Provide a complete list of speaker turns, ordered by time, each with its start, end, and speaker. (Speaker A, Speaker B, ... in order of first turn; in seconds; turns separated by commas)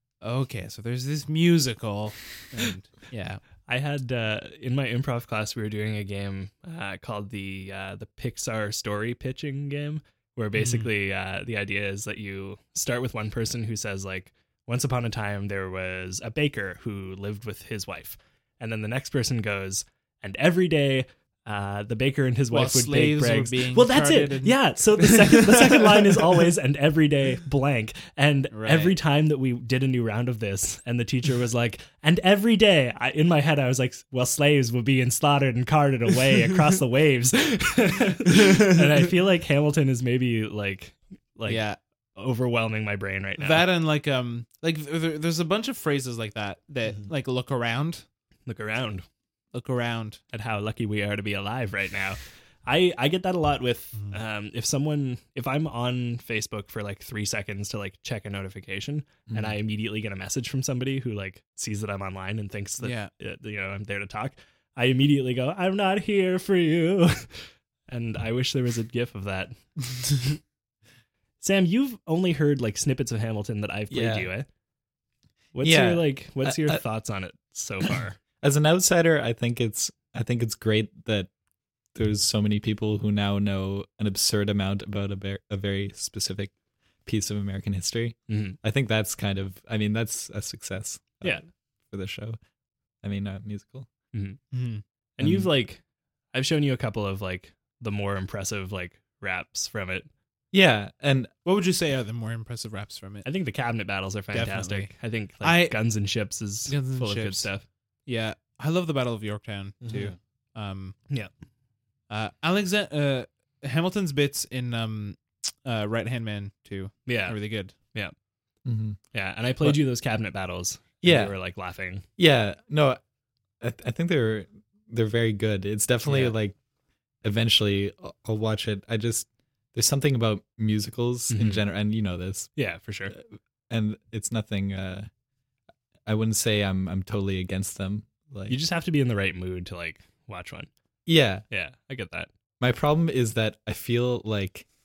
Speaker A: 0.2-3.4, Speaker B: 3.7-43.6, Speaker A: 10.5-10.9, Speaker A: 22.5-26.3, Speaker A: 28.5-29.0, Speaker A: 41.5-41.8, Speaker A: 43.4-48.0, Speaker B: 48.5-49.0, Speaker A: 49.5-50.2, Speaker B: 50.3-69.7, Speaker C: 59.3-59.5, Speaker A: 62.8-63.1, Speaker B: 71.4-74.5, Speaker C: 73.9-74.3, Speaker B: 75.5-78.2, Speaker C: 75.6-76.8, Speaker C: 78.4-81.3, Speaker C: 81.9-86.5, Speaker C: 87.0-92.4, Speaker B: 88.3-88.6, Speaker C: 93.0-93.9, Speaker B: 94.1-94.4, Speaker A: 94.5-94.8, Speaker B: 95.2-95.8, Speaker C: 95.2-95.5, Speaker B: 96.3-100.1, Speaker C: 100.5-101.3, Speaker A: 101.4-103.2, Speaker B: 103.2-107.6, Speaker A: 104.3-105.8, Speaker A: 106.7-107.5, Speaker A: 108.0-111.0, Speaker A: 112.1-117.7, Speaker B: 117.0-118.1, Speaker C: 118.6-119.0, Speaker B: 119.1-122.0, Speaker C: 121.0-121.3, Speaker C: 122.2-123.0, Speaker C: 123.6-126.5, Speaker C: 127.2-132.6, Speaker B: 131.3-131.6, Speaker B: 132.6-133.1, Speaker C: 133.1-135.1, Speaker C: 136.1-138.6, Speaker B: 138.5-140.7, Speaker C: 141.1-141.4, Speaker B: 141.5-142.3, Speaker C: 142.6-144.7